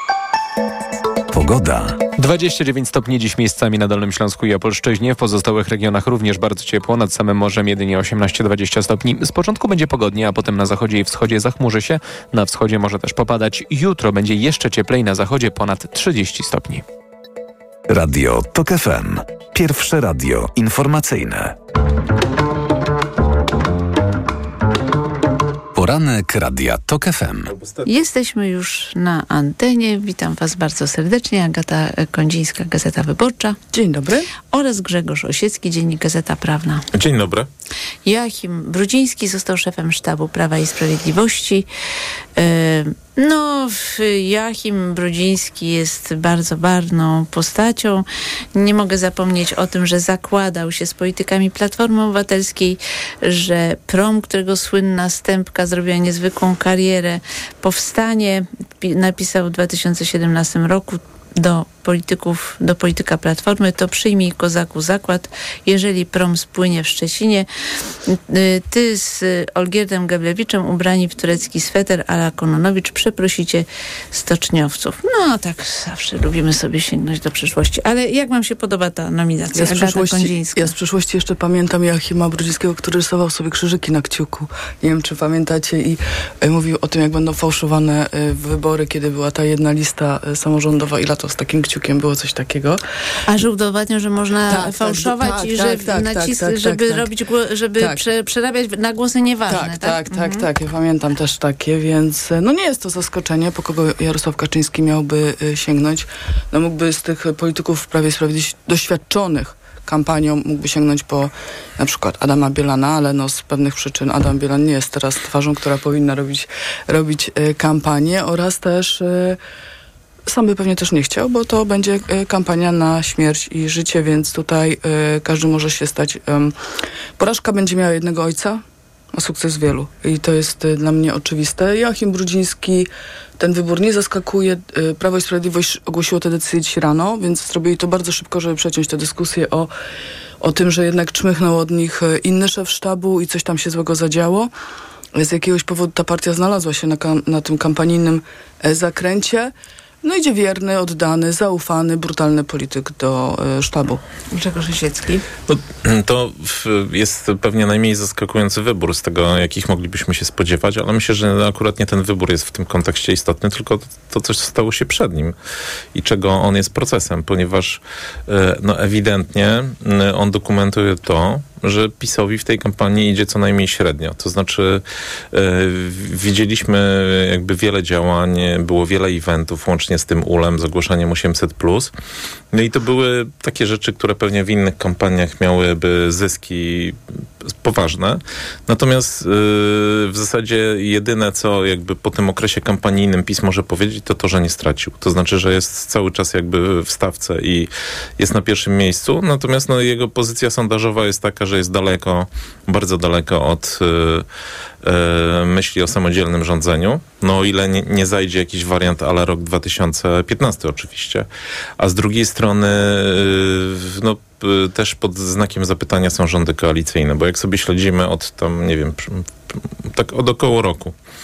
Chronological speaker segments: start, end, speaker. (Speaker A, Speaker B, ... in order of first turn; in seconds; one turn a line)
Speaker A: 1.3-2.0
Speaker B: 2.2-16.8
Speaker A: 17.9-21.5
Speaker A: 25.7-27.5
Speaker C: 27.6-27.9
Speaker D: 27.9-33.6
Speaker E: 33.7-34.3
Speaker D: 34.5-36.8
Speaker C: 36.9-37.5
Speaker D: 38.0-41.7
Speaker D: 42.4-67.5
Speaker D: 68.1-80.7
Speaker E: 79.5-92.8
Speaker D: 93.3-100.4
Speaker E: 94.5-97.1
Speaker E: 97.8-98.0
Speaker E: 99.5-119.4
Speaker E: 120.3-126.5
Speaker E: 127.2-139.7
Speaker E: 140.4-144.5
Speaker E: 145.1-149.5
Speaker E: 150.0-154.0
Speaker D: 154.3-155.2
Speaker C: 155.5-165.3
Speaker C: 165.9-181.9
Speaker C: 182.5-187.0
Speaker C: 187.5-204.2
Speaker C: 204.8-211.3
Speaker C: 211.8-220.9